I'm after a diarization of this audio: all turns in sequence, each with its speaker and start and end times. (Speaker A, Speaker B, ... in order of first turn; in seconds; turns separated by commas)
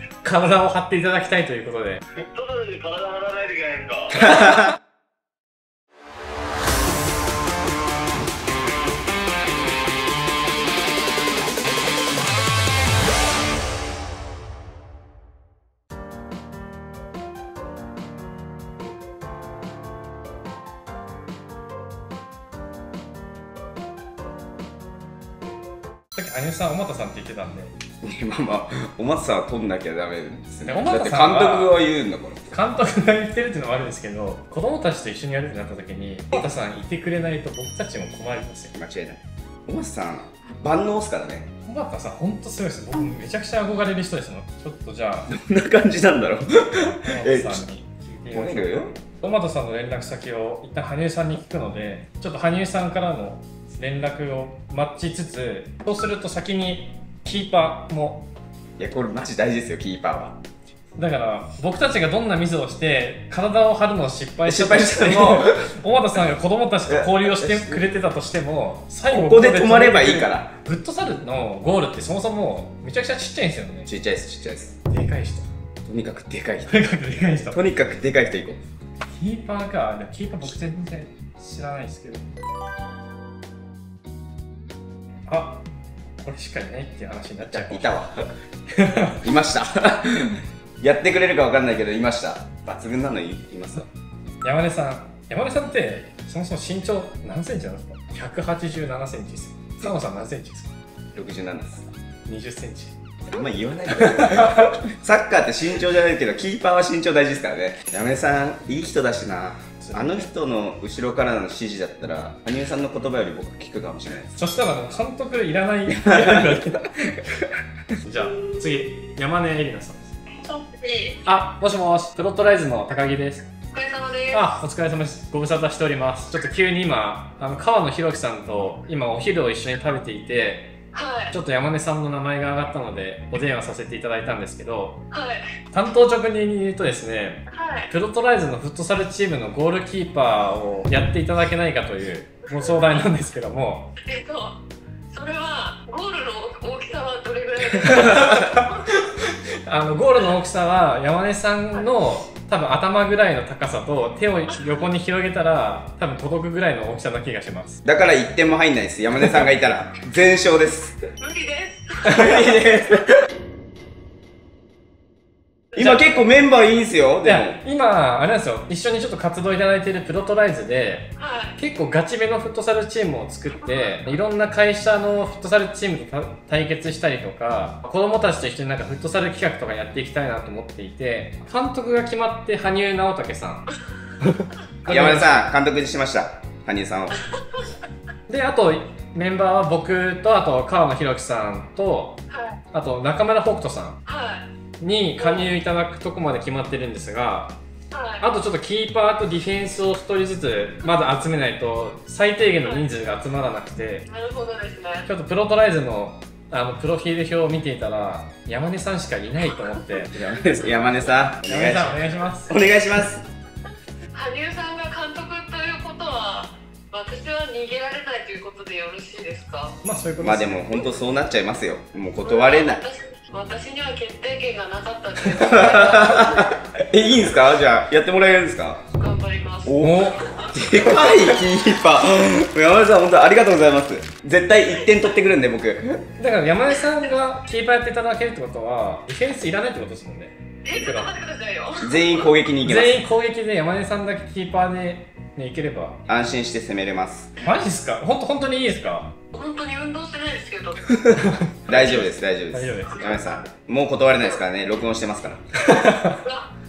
Speaker A: 0.2-2.0, Speaker B: 2.3-4.3, Speaker C: 4.3-4.6, Speaker A: 26.1-27.8, Speaker C: 28.0-32.6, Speaker A: 30.7-31.8, Speaker A: 32.5-38.7, Speaker C: 38.7-41.5, Speaker A: 41.6-45.3, Speaker C: 45.3-47.6, Speaker A: 47.1-58.3, Speaker C: 48.3-49.1, Speaker C: 58.8-60.4, Speaker A: 61.0-73.9, Speaker C: 64.5-65.7, Speaker C: 66.9-67.9, Speaker C: 69.1-70.5, Speaker C: 73.9-74.8, Speaker A: 74.9-75.5, Speaker C: 75.8-78.6, Speaker A: 76.7-77.6, Speaker A: 79.1-82.4, Speaker A: 85.3-85.7, Speaker A: 86.2-87.9, Speaker C: 87.4-88.2, Speaker A: 88.7-89.2, Speaker C: 89.2-93.9, Speaker A: 94.4-100.7, Speaker C: 101.1-101.9, Speaker A: 102.3-103.0, Speaker C: 103.3-114.3, Speaker A: 104.3-104.6, Speaker A: 109.8-110.3, Speaker A: 114.3-116.9, Speaker C: 116.1-116.6, Speaker A: 118.0-120.2, Speaker D: 120.4-121.2, Speaker A: 121.3-123.5, Speaker D: 123.7-124.6, Speaker A: 124.3-130.8, Speaker D: 130.9-131.4, Speaker A: 131.3-135.0, Speaker D: 135.1-135.4, Speaker A: 135.7-143.9, Speaker D: 137.5-137.9, Speaker D: 142.5-143.0, Speaker D: 144.0-144.6, Speaker D: 145.1-149.0, Speaker A: 147.8-148.6, Speaker A: 149.7-157.8, Speaker C: 157.8-161.0, Speaker D: 161.2-162.4, Speaker C: 162.1-163.1, Speaker D: 165.7-166.0, Speaker C: 165.8-167.6, Speaker A: 167.2-183.7, Speaker D: 171.2-171.6, Speaker A: 184.2-185.5, Speaker C: 184.8-187.2, Speaker A: 188.3-192.2, Speaker D: 192.3-192.6, Speaker A: 192.7-194.0, Speaker D: 194.1-194.5, Speaker A: 194.8-197.6, Speaker D: 195.2-195.5, Speaker D: 197.9-198.3, Speaker A: 198.2-204.1, Speaker D: 204.1-205.1, Speaker A: 205.1-210.1, Speaker C: 210.1-213.2, Speaker A: 211.5-212.5, Speaker D: 214.1-219.8, Speaker A: 219.8-220.6, Speaker C: 220.2-222.8, Speaker D: 222.2-226.5, Speaker C: 225.4-228.8, Speaker D: 229.0-230.5, Speaker C: 229.7-236.1, Speaker A: 229.8-230.1, Speaker A: 236.2-241.1, Speaker D: 240.6-242.2, Speaker C: 241.8-243.0, Speaker A: 242.6-246.0, Speaker C: 246.1-247.4, Speaker A: 247.4-249.2, Speaker D: 249.3-250.8, Speaker A: 251.4-253.0, Speaker C: 251.7-255.6, Speaker D: 253.0-253.4, Speaker A: 255.7-256.2, Speaker D: 256.2-256.5